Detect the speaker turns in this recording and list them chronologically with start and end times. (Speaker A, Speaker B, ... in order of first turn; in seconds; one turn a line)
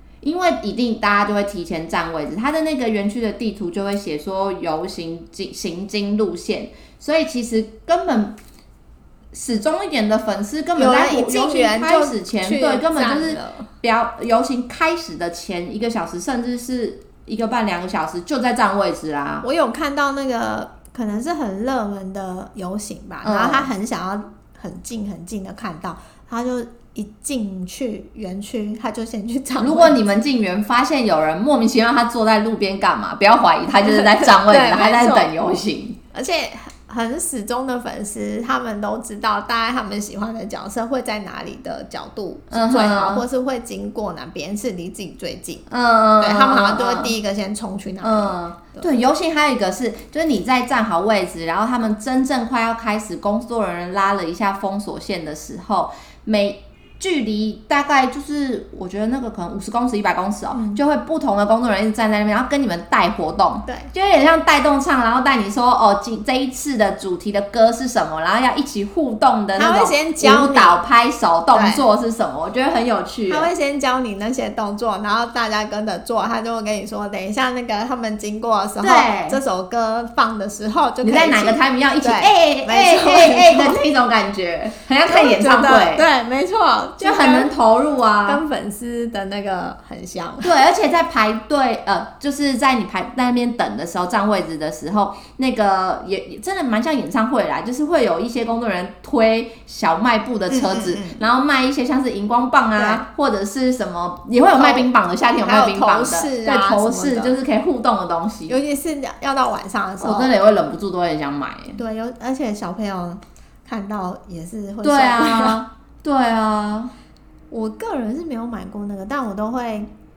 Speaker A: 0.2-8.4
Speaker A: 9.3-19.4
Speaker B: 10.8-13.7
Speaker B: 19.4-30.0
Speaker A: 23.2-23.7
Speaker A: 29.6-36.0
Speaker B: 33.8-35.3
Speaker B: 36.1-45.7
Speaker A: 42.5-43.2
Speaker A: 45.7-47.1
Speaker B: 46.2-48.9
Speaker A: 48.0-73.5
Speaker B: 60.5-60.8
Speaker B: 63.6-63.9
Speaker B: 69.5-70.8
Speaker B: 71.5-71.8
Speaker B: 73.3-83.9
Speaker A: 78.8-79.4
Speaker A: 81.0-86.0
Speaker B: 85.0-87.5
Speaker A: 87.0-88.4
Speaker B: 88.2-90.5
Speaker A: 90.4-108.6
Speaker B: 100.5-101.2
Speaker B: 102.8-103.0
Speaker B: 104.5-104.9
Speaker B: 105.4-107.4
Speaker B: 108.5-110.3
Speaker A: 110.0-111.8
Speaker B: 111.7-115.6
Speaker A: 114.8-116.9
Speaker B: 117.5-119.9